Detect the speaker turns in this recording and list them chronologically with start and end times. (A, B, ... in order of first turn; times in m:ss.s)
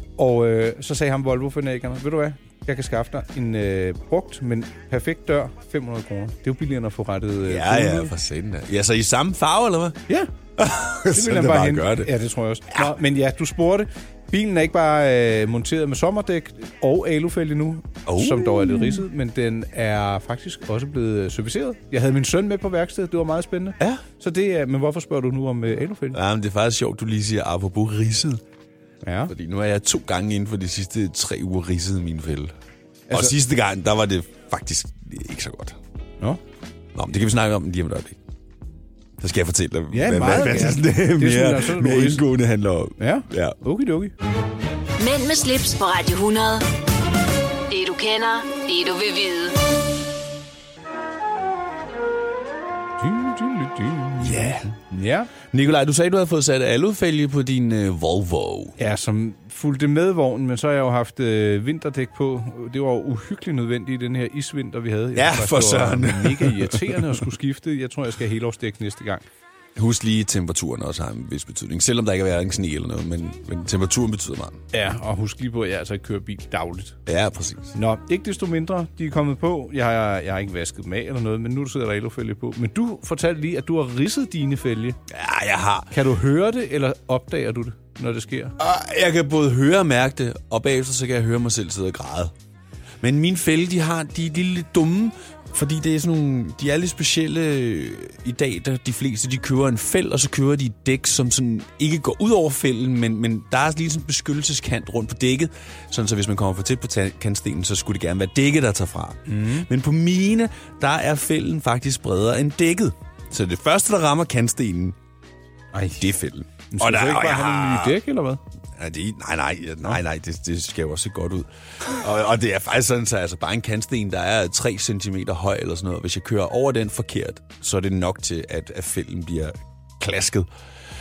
0:00.2-0:08.1 A
0:07.4-0:10.0 B
0:10.6-0:12.1 B
0:11.1-0:26.2 A
0:18.1-0:19.0 B
0:26.1-0:28.4 B
0:29.0-0:29.3 A
0:29.3-0:32.5 B
0:33.1-0:35.8 B
0:37.0-0:38.2 B
0:39.2-0:43.6 B
0:39.9-0:42.2 A
0:43.0-0:44.1 A
0:45.0-0:46.7 C
0:47.7-0:49.6 C
0:53.0-0:55.3 A
0:54.2-0:54.7 B
0:55.5-0:58.8 B
0:58.8-1:09.2 A
1:05.2-1:07.2 B
1:09.8-1:14.6 B
1:14.7-1:17.0 A
1:17.1-1:17.7 B
1:17.7-1:25.0 A
1:25.1-1:25.9 B
1:25.9-1:28.6 A
1:28.6-1:32.3 B
1:33.0-1:55.0 B
1:49.3-1:49.7 A
1:55.7-1:56.1 A
1:56.0-1:58.0 B
1:56.7-1:58.4 A
1:58.8-2:10.5 B